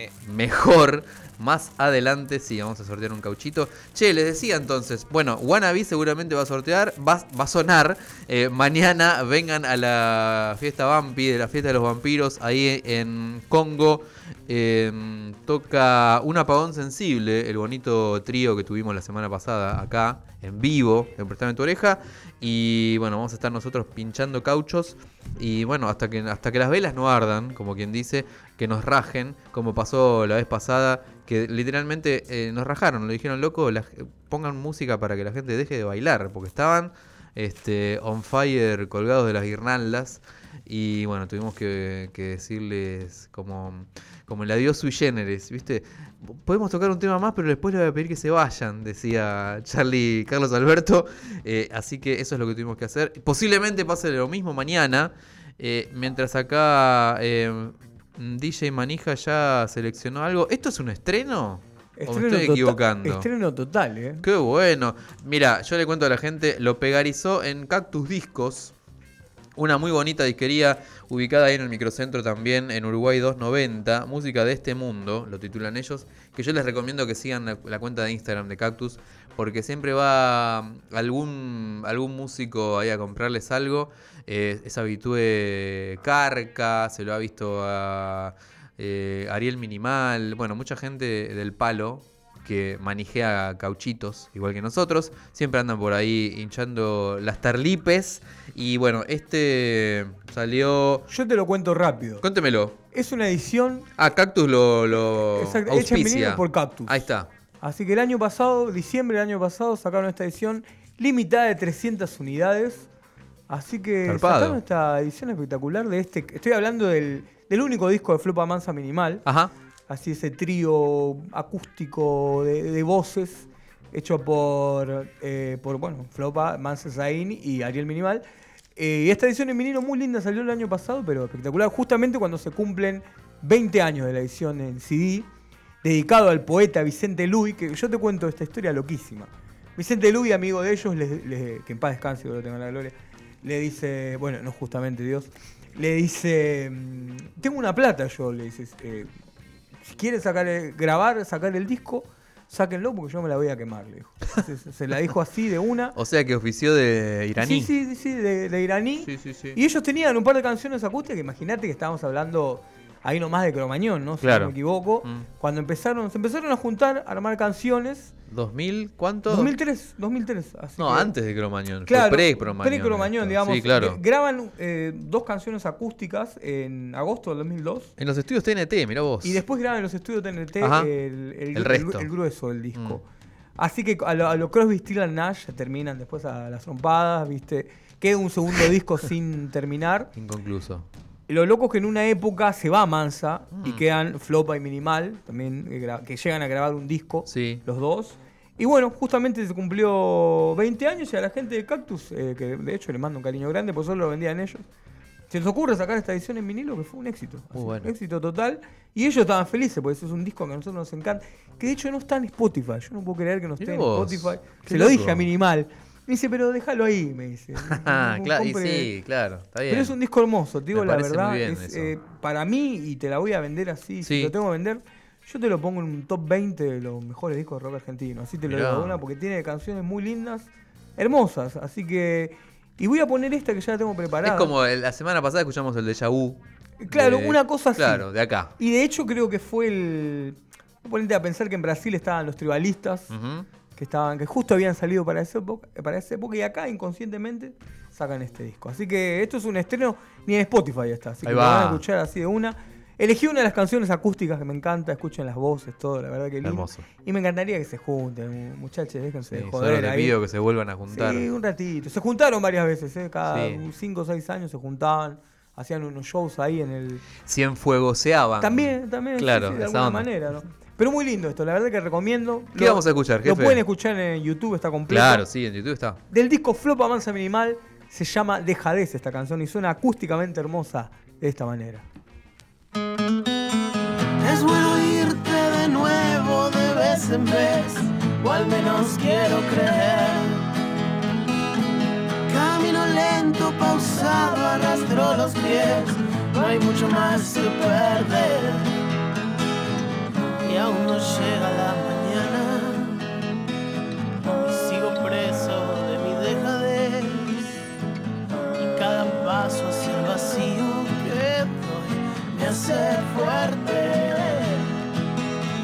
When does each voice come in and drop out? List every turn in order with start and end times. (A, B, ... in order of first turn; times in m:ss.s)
0:00.2-1:03.3 A
1:02.0-1:04.2 B
1:04.2-1:08.7 A
1:09.6-1:41.1 A
1:41.1-1:42.2 B
1:42.2-1:42.8 A
1:42.9-1:43.9 B
1:44.0-1:47.3 A
1:45.1-1:47.1 B
1:47.6-1:52.9 B
1:53.5-1:59.2 B
1:54.0-1:54.6 A
1:59.2-1:59.5 A
1:59.9-2:08.2 B
2:08.8-2:15.3 B
2:15.8-2:29.1 B
2:29.8-2:36.0 B
2:36.0-2:37.7 A
2:37.4-2:48.1 B
2:39.0-2:39.6 A
2:44.2-2:45.3 A
2:48.3-2:49.5 A
2:49.3-2:51.1 B
2:50.8-2:54.0 A
2:51.9-2:57.9 B
2:58.0-2:59.4 A
2:59.2-3:03.0 B
3:00.6-3:00.9 A
3:01.5-3:02.1 A
3:02.8-3:03.0 A
3:03.6-3:10.1 B
3:10.2-3:10.9 A
3:11.3-3:24.7 B
3:13.5-3:13.8 A
3:17.3-3:17.6 A
3:25.3-3:38.9 B
3:27.6-3:27.9 A
3:33.6-3:35.3 A
3:37.6-3:40.0 A
3:39.7-3:54.5 B
3:40.7-3:41.9 A
3:44.0-3:44.3 A
3:48.4-3:49.0 A
3:54.2-3:58.5 A
3:56.8-4:03.1 B
4:03.1-4:03.5 A
4:03.8-4:20.2 B
4:11.2-4:11.8 A
4:16.4-4:16.8 A
4:19.3-4:21.3 A
4:20.9-4:27.0 B
4:23.3-4:23.6 A
4:27.2-4:30.1 A
4:28.4-4:35.3 B
4:32.6-4:33.6 A
4:34.9-4:36.0 A
4:36.1-4:41.9 B
4:44.2-4:50.4 C
4:52.3-4:58.7 C
5:00.4-5:03.0 C
5:04.2-5:07.6 C
5:08.6-5:14.6 C